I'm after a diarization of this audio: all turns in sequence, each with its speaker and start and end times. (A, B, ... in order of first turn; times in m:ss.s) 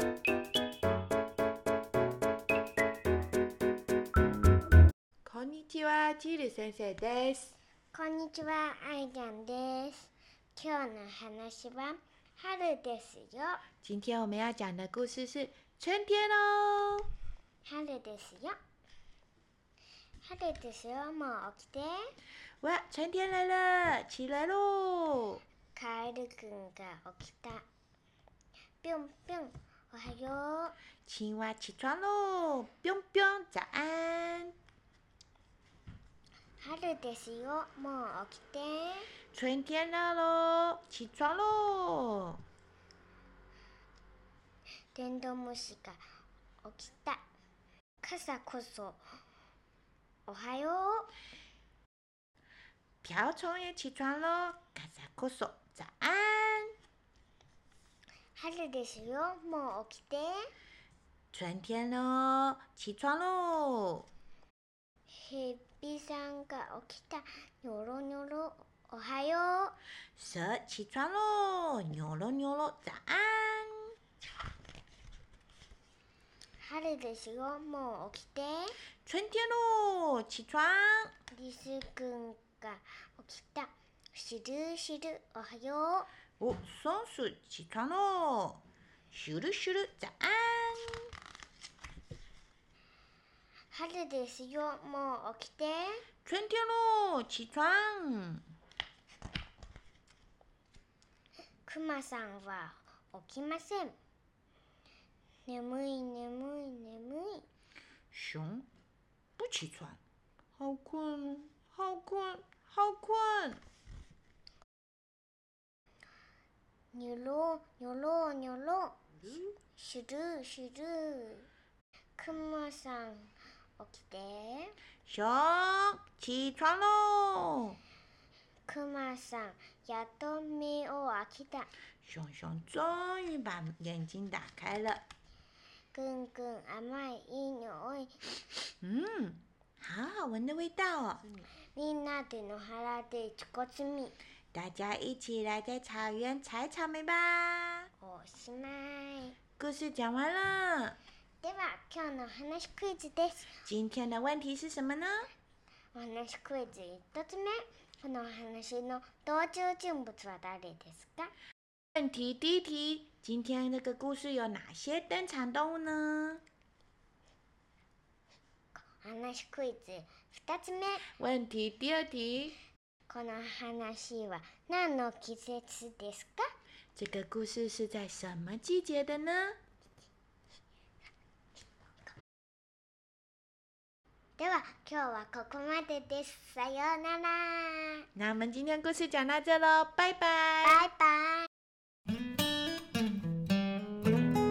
0:05.2-0:07.6 A
0:07.9-0:13.6 B
0:13.8-0:17.1 A
0:17.6-0:18.6 B
0:20.2-0:22.1 B
0:22.6-0:25.4 A
0:25.7-0:27.6 B
0:28.8-0:30.8 B
0:31.0-0:34.5 A
0:36.6-0:39.1 B
0:39.3-0:42.4 A
0:44.9-0:46.0 B
0:46.6-0:47.2 B
0:48.0-0:49.0 B
0:50.3-0:51.1 B
0:53.0-0:56.7 A
0:58.4-1:00.5 B
1:01.3-1:04.1 A
1:05.1-1:09.8 B
1:10.2-1:13.9 A
1:16.6-1:18.8 B
1:19.0-1:21.1 A
1:21.3-1:26.1 B
1:26.4-1:31.1 A
1:33.7-1:36.0 B
1:36.2-1:38.4 A
1:41.6-1:44.0 B
1:45.5-1:47.4 B
1:48.1-1:48.7 A
1:49.4-1:50.0 A
1:50.6-1:53.6 A
1:56.9-1:59.0 B
1:59.8-2:01.5 B
2:02.2-2:04.8 B
2:05.0-2:07.8 A
2:08.7-2:11.7 B
2:12.0-2:15.0 A
2:15.9-2:18.3 B
2:18.8-2:21.4 A
2:21.7-2:24.2 B
2:24.5-2:27.9 A
2:28.0-2:29.4 B
2:29.6-2:31.0 A
2:31.4-2:33.5 B
2:33.6-2:35.3 A
2:35.9-2:41.3 B
2:41.9-2:46.4 A
2:49.0-2:51.1 B
2:51.1-2:52.6 A
2:53.1-2:56.5 B
2:56.9-2:59.6 A
3:04.4-3:08.0 B
3:08.2-3:10.8 A
3:10.6-3:11.5 B